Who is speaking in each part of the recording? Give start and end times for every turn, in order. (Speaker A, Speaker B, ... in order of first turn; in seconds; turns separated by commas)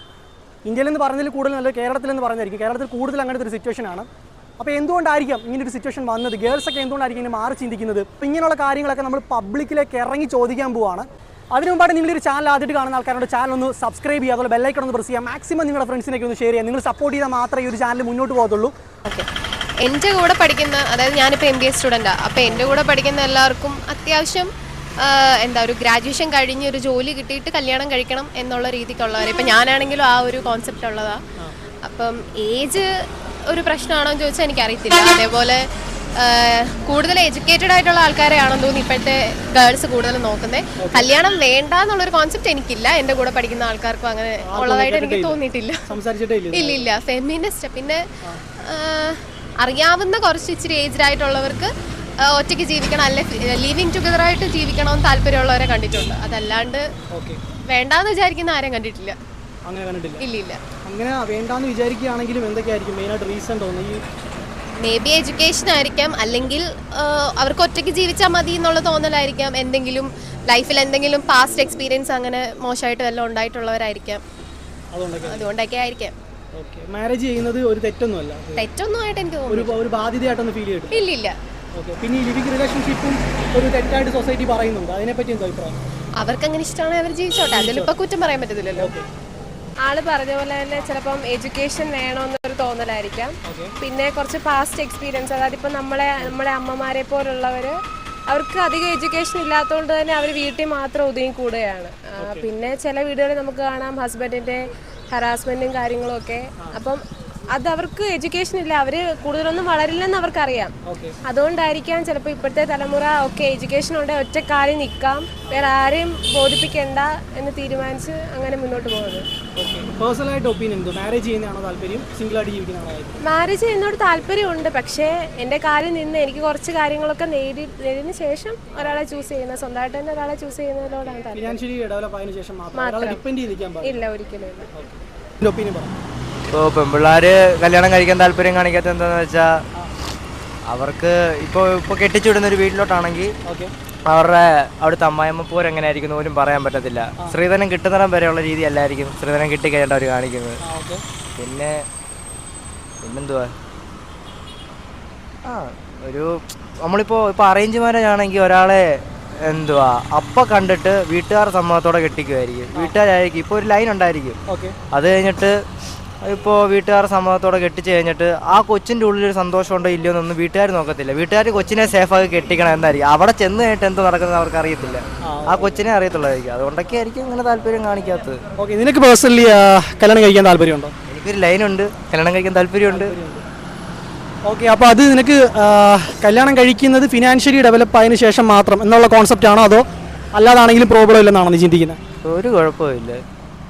Speaker A: 0.7-4.1, Speaker A: 4.6-18.7, Speaker B: 19.8-31.2, Speaker A: 22.4-22.8, Speaker B: 31.9-32.9, Speaker B: 33.5-35.6, Speaker B: 36.2-46.0, Speaker A: 40.8-41.1, Speaker A: 44.4-46.9, Speaker B: 46.5-48.0, Speaker B: 48.6-56.8, Speaker A: 57.1-57.4, Speaker B: 57.7-59.2, Speaker A: 59.7-60.2, Speaker B: 60.2-60.6, Speaker A: 60.9-64.0, Speaker B: 64.8-74.2, Speaker A: 74.9-75.6, Speaker B: 75.2-76.2, Speaker A: 76.6-78.7, Speaker B: 78.6-79.8, Speaker A: 79.5-81.0, Speaker B: 80.9-81.4, Speaker A: 81.8-85.8, Speaker B: 86.2-89.0, Speaker A: 87.5-87.9, Speaker A: 88.8-89.1, Speaker C: 89.9-107.0, Speaker A: 93.5-93.7, Speaker A: 102.2-102.5, Speaker C: 107.5-119.3, Speaker A: 110.8-111.2, Speaker A: 119.6-123.2, Speaker C: 123.2-131.5, Speaker A: 131.3-134.0, Speaker C: 132.7-133.2, Speaker C: 133.8-134.7, Speaker A: 134.7-135.9, Speaker D: 136.5-139.6, Speaker D: 140.7-143.3, Speaker A: 143.4-143.7, Speaker D: 144.1-150.6, Speaker A: 150.6-151.0, Speaker D: 151.4-151.8, Speaker D: 153.0-153.5, Speaker D: 155.5-164.4, Speaker A: 164.5-164.8, Speaker D: 164.9-165.7, Speaker D: 166.2-178.4, Speaker A: 175.2-175.9, Speaker A: 178.6-180.9, Speaker D: 181.1-183.1, Speaker A: 182.8-183.4, Speaker A: 184.5-192.0, Speaker D: 192.3-193.2